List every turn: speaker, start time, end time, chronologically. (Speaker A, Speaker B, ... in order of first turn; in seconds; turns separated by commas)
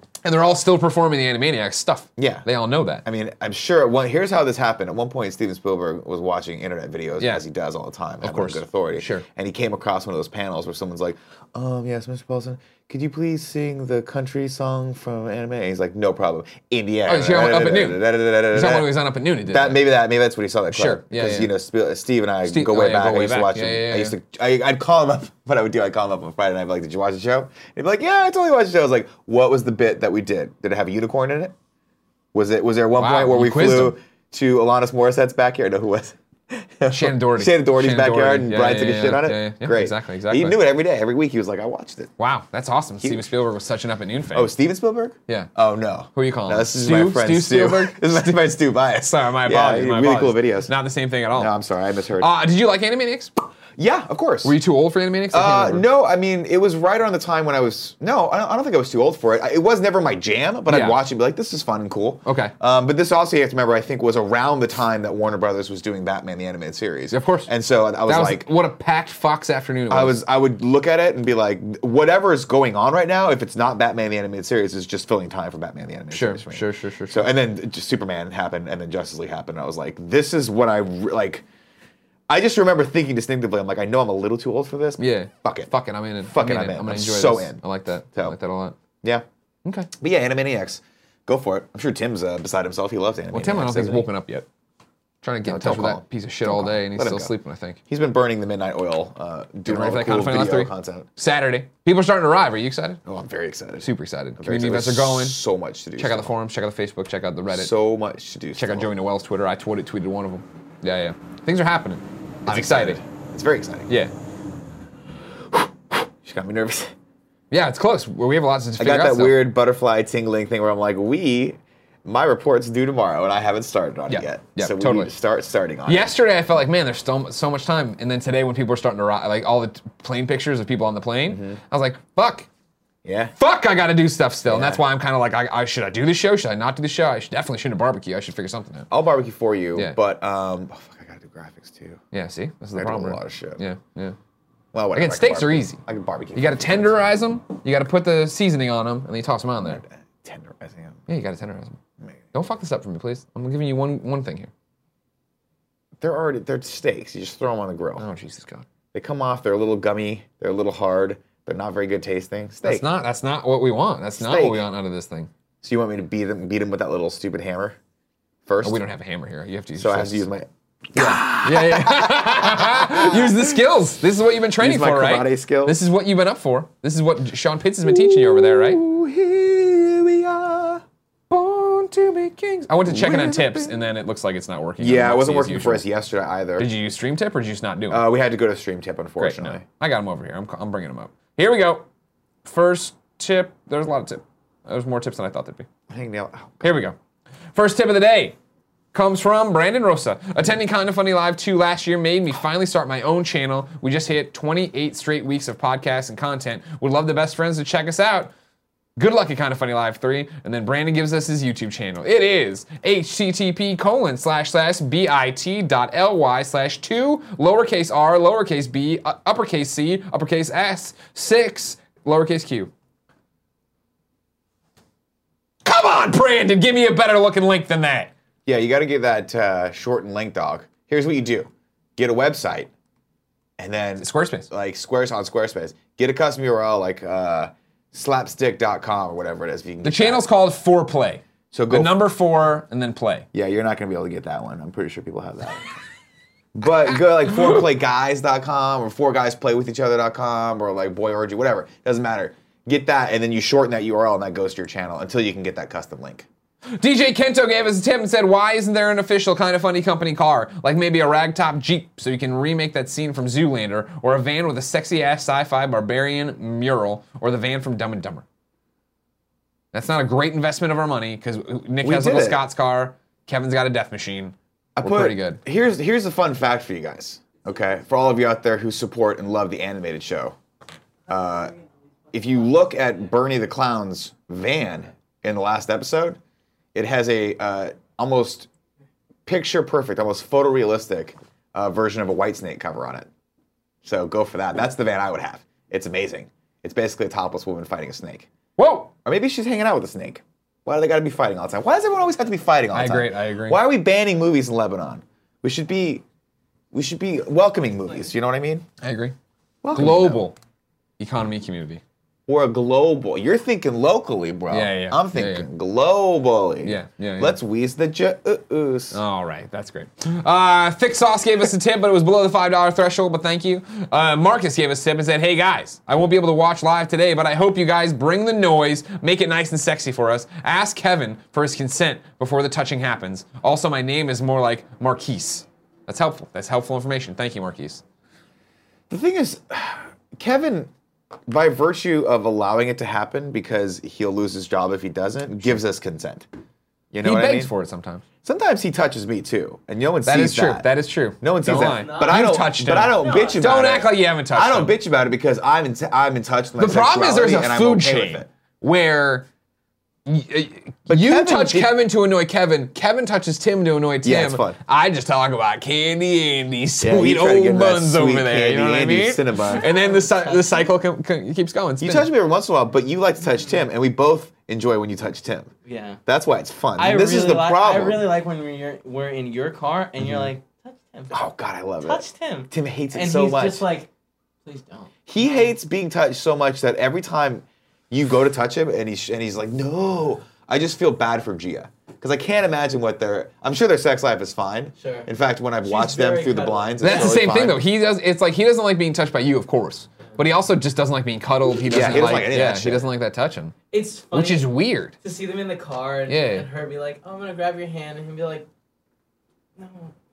Speaker A: 0.2-3.0, Speaker B: 2.2-2.5, Speaker B: 3.0-18.9, Speaker A: 7.2-7.4, Speaker A: 8.2-9.2, Speaker A: 17.1-19.9, Speaker B: 19.5-31.6, Speaker A: 20.7-21.5, Speaker A: 22.4-24.1, Speaker B: 32.3-42.1, Speaker A: 33.0-34.0, Speaker A: 36.9-40.6, Speaker A: 42.2-44.5, Speaker B: 43.0-43.3, Speaker B: 44.3-50.7, Speaker A: 46.1-51.5, Speaker B: 51.4-52.3, Speaker A: 52.2-53.3, Speaker B: 53.8-54.5, Speaker A: 54.4-55.9, Speaker B: 55.3-68.5, Speaker A: 60.7-61.0, Speaker A: 62.2-62.5, Speaker A: 67.1-67.5, Speaker A: 68.0-70.2, Speaker B: 69.9-81.4, Speaker A: 76.1-77.3, Speaker B: 82.3-85.7, Speaker A: 85.0-88.8, Speaker B: 86.2-87.6, Speaker B: 90.0-94.1, Speaker A: 93.3-94.5, Speaker A: 95.2-97.8, Speaker B: 95.5-97.3, Speaker B: 97.9-101.1, Speaker A: 99.7-103.0, Speaker B: 103.1-106.3, Speaker A: 103.8-105.4, Speaker A: 106.0-107.7, Speaker B: 107.5-108.9, Speaker A: 108.6-113.0, Speaker B: 112.5-113.9, Speaker B: 115.9-116.9, Speaker A: 117.5-119.5, Speaker B: 118.8-126.1, Speaker A: 124.1-125.1, Speaker A: 125.9-132.5, Speaker B: 131.3-131.6, Speaker B: 133.1-133.3, Speaker A: 133.4-138.9, Speaker B: 134.4-134.8, Speaker B: 138.9-142.0, Speaker A: 142.1-144.2, Speaker B: 142.8-143.6, Speaker B: 144.7-147.0, Speaker A: 144.9-145.8, Speaker A: 146.3-149.8, Speaker B: 149.6-151.0, Speaker A: 151.1-151.8, Speaker A: 152.3-154.5, Speaker B: 156.0-158.1, Speaker A: 158.0-158.7, Speaker B: 158.9-162.9, Speaker A: 162.6-165.3, Speaker B: 164.2-164.6, Speaker B: 165.6-167.8, Speaker B: 168.5-168.8, Speaker A: 168.6-170.3, Speaker B: 169.8-173.6, Speaker A: 170.9-178.8, Speaker B: 174.6-175.8, Speaker B: 177.8-180.8, Speaker A: 181.3-185.8, Speaker B: 182.9-183.8, Speaker B: 184.8-186.7, Speaker A: 186.6-188.1, Speaker B: 187.9-189.6, Speaker A: 189.2-191.9, Speaker A: 192.4-195.7, Speaker B: 195.9-196.8, Speaker A: 196.6-197.0, Speaker A: 197.5-198.4, Speaker A: 198.9-208.3, Speaker A: 209.0-222.7, Speaker A: 225.6-228.1, Speaker B: 228.5-232.7, Speaker B: 233.6-240.3, Speaker A: 234.0-234.5, Speaker A: 239.8-243.3, Speaker B: 241.5-242.0, Speaker B: 243.3-245.7, Speaker B: 246.6-256.3, Speaker A: 246.9-247.6, Speaker A: 256.8-268.2, Speaker A: 269.7-275.4, Speaker B: 271.8-272.4, Speaker B: 274.8-280.4, Speaker B: 281.1-281.5, Speaker C: 281.2-281.6, Speaker B: 282.1-286.2, Speaker B: 286.8-288.5, Speaker B: 289.3-293.1, Speaker B: 293.8-298.3, Speaker A: 298.6-298.9, Speaker B: 299.1-306.0, Speaker A: 302.7-303.6, Speaker B: 306.7-308.6, Speaker A: 308.8-309.2, Speaker B: 309.6-310.3, Speaker A: 309.7-310.4, Speaker A: 311.0-311.8, Speaker B: 312.3-319.0, Speaker A: 314.5-315.5, Speaker A: 316.6-317.4, Speaker A: 318.9-337.8, Speaker B: 338.9-340.7, Speaker B: 341.3-346.3, Speaker B: 346.9-347.5, Speaker A: 347.0-348.0, Speaker B: 348.2-358.3, Speaker A: 350.1-354.8, Speaker C: 351.6-352.3, Speaker C: 352.9-353.5, Speaker A: 356.6-359.3, Speaker A: 360.1-372.1, Speaker B: 360.9-361.8, Speaker B: 364.0-364.6, Speaker B: 366.8-369.6, Speaker C: 369.6-370.7, Speaker B: 371.8-375.5, Speaker C: 375.7-376.0, Speaker B: 376.1-378.1, Speaker C: 376.8-381.1, Speaker B: 380.0-380.3, Speaker B: 381.1-383.7, Speaker C: 381.8-383.9, Speaker C: 384.4-385.5, Speaker B: 385.1-397.7, Speaker C: 394.8-395.1, Speaker C: 395.6-397.3, Speaker A: 396.8-403.5, Speaker B: 401.7-402.8, Speaker C: 403.7-404.5, Speaker A: 404.1-405.0, Speaker C: 405.0-408.5, Speaker A: 406.1-406.5, Speaker C: 409.6-409.9